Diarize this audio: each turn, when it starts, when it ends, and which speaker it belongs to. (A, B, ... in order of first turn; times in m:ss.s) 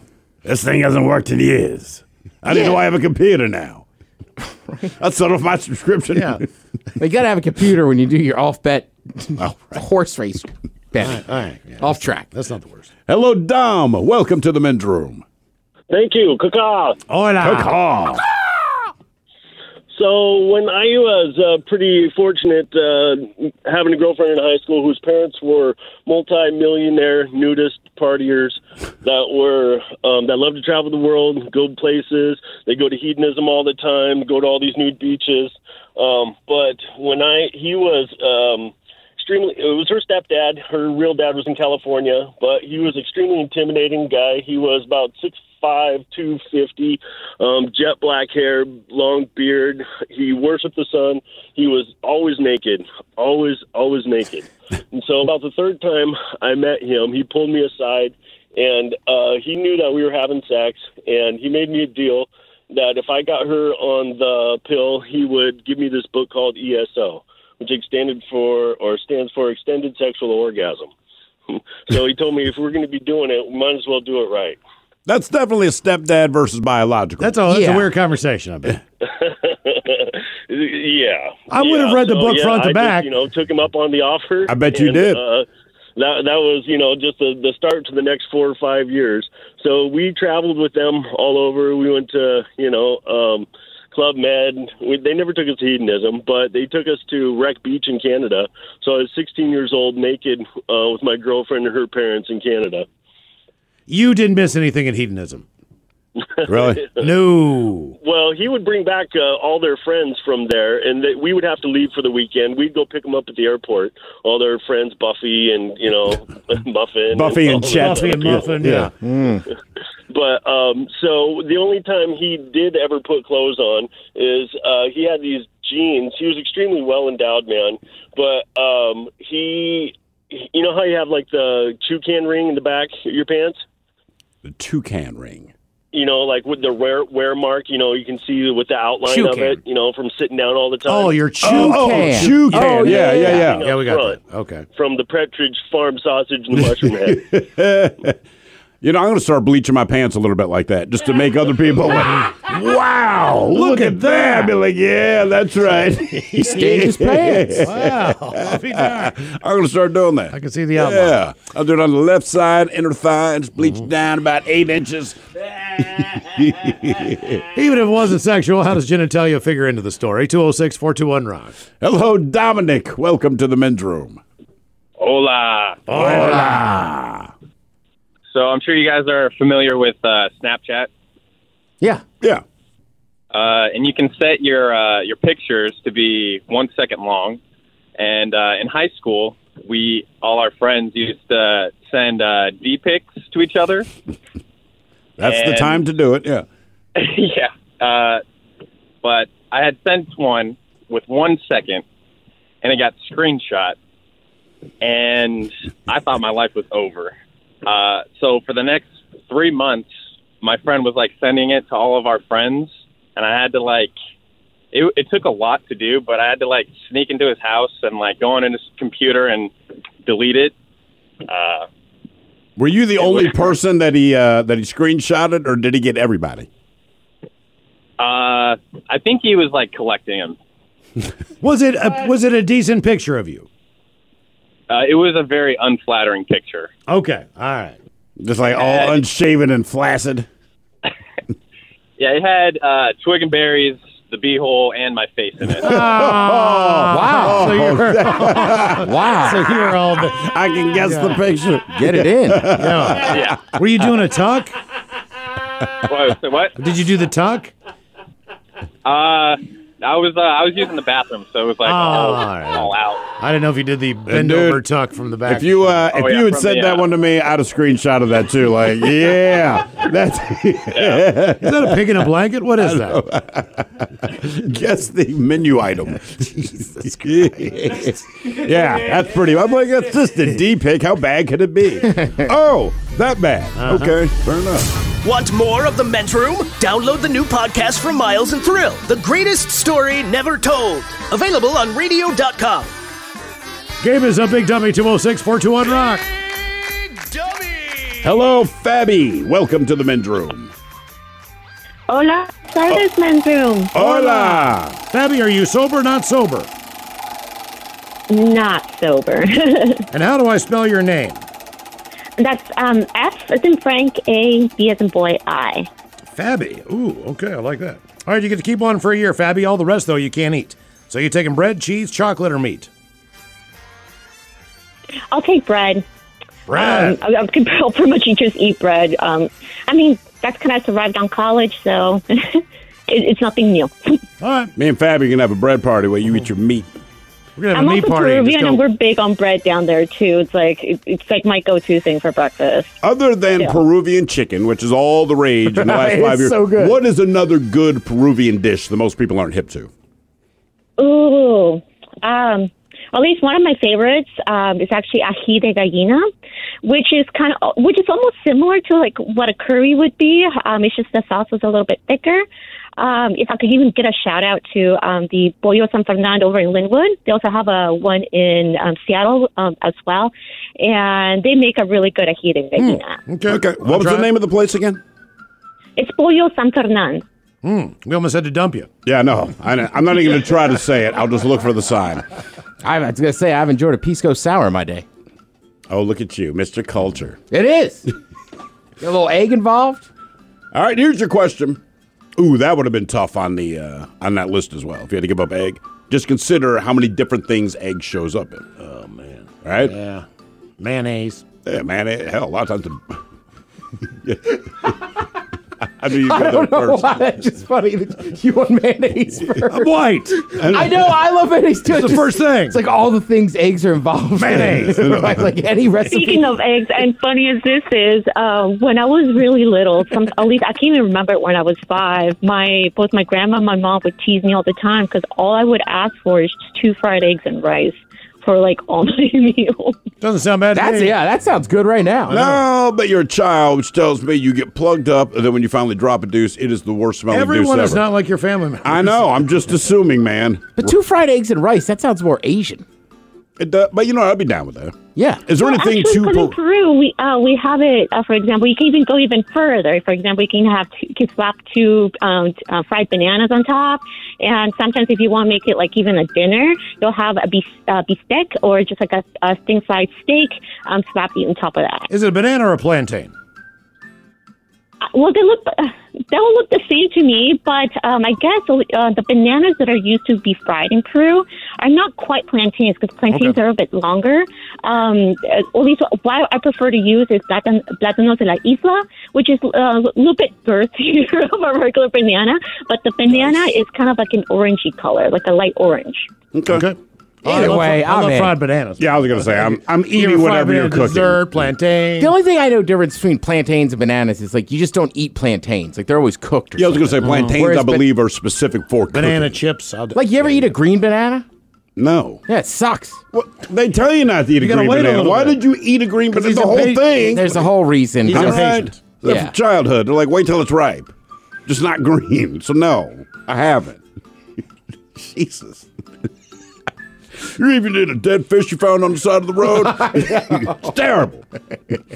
0:00.4-0:03.8 A
0:04.9-0:06.4 A
0:06.1-0:06.4 B
0:07.0-0:11.2 C
0:09.4-0:09.8 A
0:11.0-0:12.9 B
0:11.8-0:12.3 C
0:13.1-0:15.2 A
0:15.9-0:17.0 D
0:17.1-0:17.7 B
0:17.4-0:18.2 A
0:19.9-1:10.9 D
1:11.5-1:14.6 D
1:15.0-1:17.4 A
1:17.2-1:18.8 B
1:17.5-1:17.9 C
1:19.0-1:25.4 D
1:21.5-1:23.1 B
1:24.5-1:25.2 A
1:26.0-1:42.8 D
1:43.9-1:45.4 B
1:46.4-1:47.0 D
1:46.4-1:46.9 A
1:47.0-1:48.0 B
1:48.0-1:58.6 D
1:57.1-1:58.9 A
1:57.6-1:58.9 B
1:59.0-1:59.4 C
2:00.1-2:13.6 D
2:14.4-2:15.5 A
2:15.9-2:21.2 D
2:19.1-2:19.6 C
2:20.8-2:24.6 B
2:21.4-2:23.6 A
2:21.5-2:23.5 C
2:22.6-2:24.2 D
2:24.7-2:27.3 D
2:27.0-2:28.2 A
2:28.8-2:47.4 A
2:33.5-2:34.5 B
2:36.2-2:39.2 B
2:36.5-2:37.7 C
2:40.3-2:41.2 B
2:47.5-2:51.6 B
2:51.8-2:54.2 A
2:55.0-2:55.9 E
2:55.9-2:56.5 B
2:55.9-2:57.3 A
2:56.0-2:56.7 C
2:58.3-3:00.9 E
3:03.3-3:07.4 E
3:08.0-3:13.9 E
3:15.2-3:16.4 A
3:15.2-3:15.8 E
3:17.0-3:18.2 E
3:19.0-3:21.8 E
3:22.6-3:23.8 E
3:24.8-3:27.1 E
3:27.6-3:29.9 E
3:30.4-3:33.9 E
3:34.7-3:39.5 E
3:40.0-3:40.5 E
3:41.2-3:41.7 E
3:42.6-3:46.5 A
3:43.0-3:43.3 E
3:48.0-3:50.4 E
3:51.4-3:53.5 B
3:54.7-3:56.7 E
3:56.9-3:57.8 B
3:58.2-4:00.3 A
3:58.6-3:58.9 E
4:02.0-4:05.6 E
4:05.6-4:11.2 B
4:05.6-4:13.6 A
4:06.9-4:07.7 C
4:08.4-4:09.6 C
4:11.7-4:12.6 C
4:12.5-4:14.5 B
4:13.0-4:13.4 E
4:15.8-4:16.5 E
4:16.6-4:17.5 B
4:18.8-4:23.0 E
4:21.6-4:25.9 B
4:24.1-4:24.6 A
4:25.2-4:44.7 A
4:25.9-4:26.9 E
4:31.4-4:33.0 B
4:37.5-4:37.9 B
4:43.6-4:43.9 B
4:45.0-4:52.7 F
4:53.8-4:56.0 B
4:57.4-4:57.8 F
4:58.0-5:00.5 A
5:01.9-5:03.7 G
5:03.7-5:04.8 A
5:04.9-5:06.5 B
5:08.1-5:09.8 G
5:09.9-5:11.2 B
5:12.2-5:15.7 G
5:16.1-5:22.7 B
5:25.1-5:25.8 G
5:26.5-5:27.0 B
5:26.5-5:34.0 G
5:34.2-5:34.5 B
5:34.6-5:36.7 A
5:37.4-5:38.6 B
5:37.5-5:42.7 G
5:42.8-5:49.7 A
5:45.5-5:46.8 C
5:50.8-5:56.0 G
5:56.6-6:02.2 G
6:02.8-6:13.0 G
6:12.6-6:14.1 B
6:13.2-6:14.8 A
6:15.8-6:17.0 G
6:17.4-6:18.7 B
6:18.8-6:22.0 A
6:22.6-6:24.8 C
6:25.7-6:27.2 A
6:27.3-6:27.9 C
6:28.8-6:29.9 C
6:30.5-6:31.6 A
6:32.2-6:38.5 A
6:38.6-6:40.0 B
6:39.4-6:39.7 A
6:40.6-6:41.2 B
6:41.4-6:43.0 A
6:44.0-6:44.7 A
6:45.8-6:47.0 A
6:45.9-6:56.3 C
6:49.5-6:50.3 B
6:50.3-6:50.9 A
6:51.7-6:52.6 B
6:54.2-6:54.9 B
6:54.7-6:55.2 A
6:55.8-7:09.8 G
7:10.0-7:11.0 B
7:10.5-7:12.2 C
7:12.1-7:12.4 B
7:12.1-7:17.9 A
7:17.1-7:19.2 B
7:18.6-7:20.8 A
7:20.6-7:22.6 C
7:23.4-7:24.8 A
7:25.0-7:25.2 C
7:25.3-7:26.4 A
7:25.3-7:41.9 G
7:41.9-7:43.1 B
7:44.9-8:06.1 G
7:53.1-7:53.4 B
8:03.1-8:03.5 A
8:06.3-8:06.7 A
8:06.5-8:12.1 B
8:07.2-8:08.4 C
8:08.8-8:11.5 A
8:12.0-8:17.8 C
8:16.6-8:19.4 A
8:17.0-8:17.4 B
8:18.9-8:20.6 B
8:19.9-8:21.2 C
8:21.8-8:22.2 A
8:22.3-8:23.0 C
8:23.1-8:27.5 A
8:24.4-8:25.4 B
8:26.1-8:27.4 B
8:27.1-8:29.3 C
8:28.0-8:28.8 B
8:28.1-8:30.9 A
8:31.4-8:33.8 A
8:34.9-8:35.7 A
8:37.2-8:41.3 A